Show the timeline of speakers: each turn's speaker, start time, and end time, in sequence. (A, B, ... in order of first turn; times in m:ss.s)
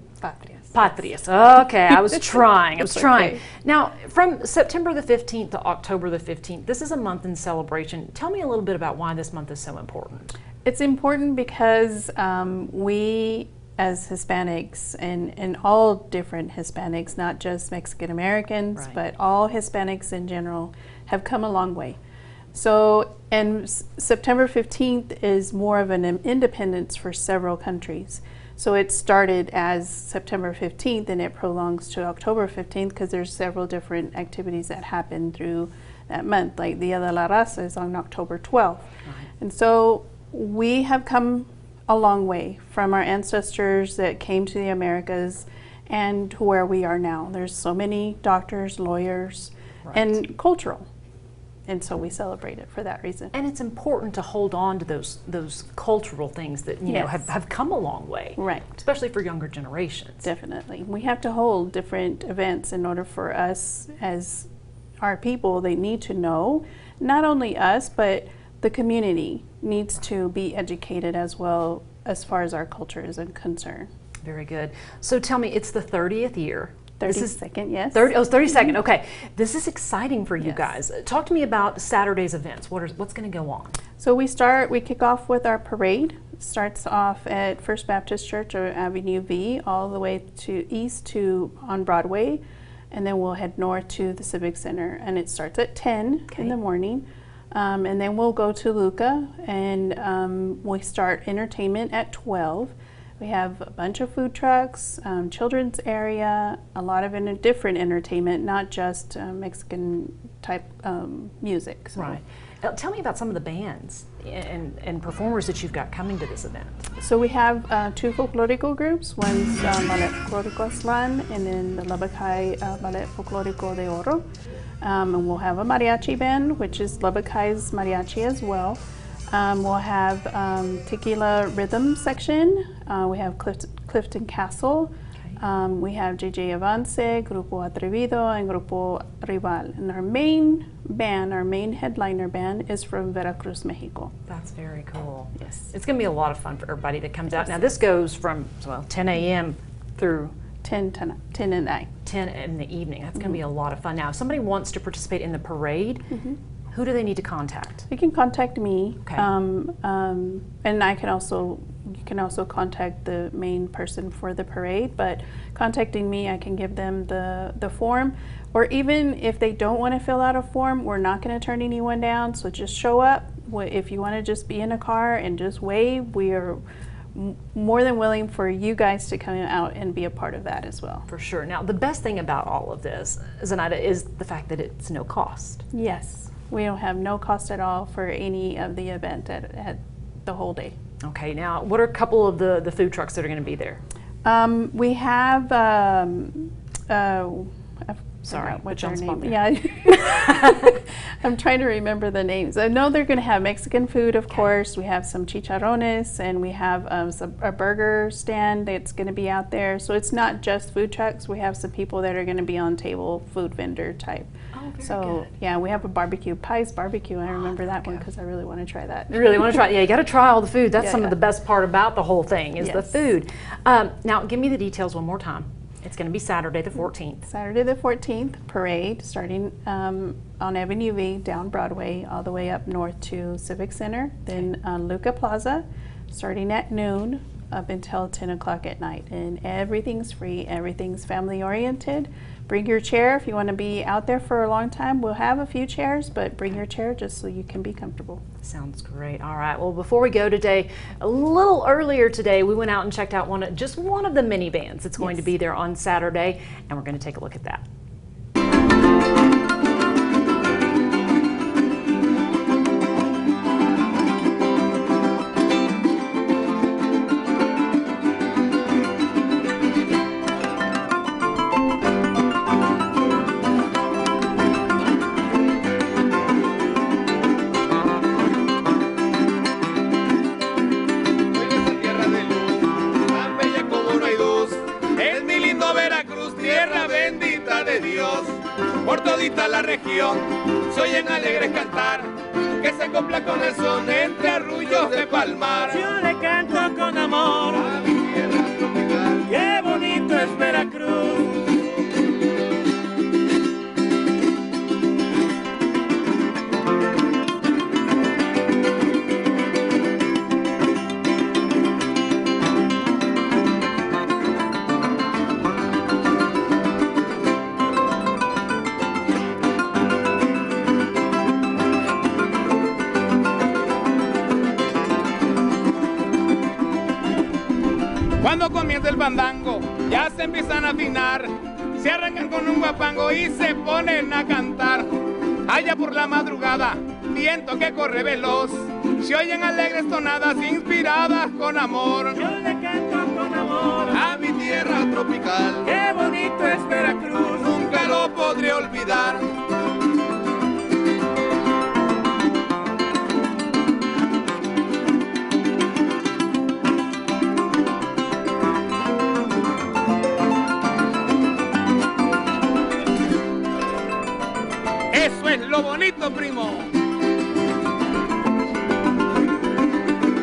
0:00.2-0:00.9 A
0:00.7-0:10.3 B
0:01.9-0:03.4 A
0:10.6-0:22.0 A
0:22.5-0:50.8 A
0:49.8-0:50.1 B
0:51.7-0:53.3 A
0:53.3-1:00.2 B
0:56.9-0:57.3 A
0:58.4-0:58.8 A
1:00.2-1:04.5 A
1:05.0-1:13.9 A
1:14.2-1:17.4 B
1:17.0-1:18.7 A
1:17.9-1:23.8 B
1:20.4-1:20.7 A
1:24.0-1:52.2 A
1:51.9-1:56.8 B
1:57.0-2:04.2 A
2:04.8-2:24.1 A
2:24.3-2:30.3 B
2:25.4-2:25.7 A
2:30.6-2:31.9 A
2:32.0-2:36.1 B
2:36.1-2:36.4 A
2:36.7-2:37.8 B
2:37.9-2:56.6 A
2:57.1-3:01.1 A
3:01.1-3:05.6 B
3:05.7-3:10.8 A
3:11.0-3:13.8 B
3:14.2-3:39.6 A
3:18.2-3:19.4 B
3:20.2-3:20.7 B
3:34.5-3:35.3 B
3:37.3-3:38.0 B
3:39.1-3:47.3 B
3:40.8-3:41.2 A
3:42.6-3:43.0 A
3:47.3-4:08.2 A
4:08.4-4:17.6 B
4:15.0-4:15.3 A
4:41.3-4:55.8 C
4:55.8-4:57.6 D
4:57.5-4:59.3 C
4:59.2-5:01.6 D
5:28.2-5:42.3 C
5:42.2-5:43.9 D
5:43.9-5:45.7 C
5:45.6-5:47.4 D
5:47.3-5:49.4 C
6:04.9-6:06.7 C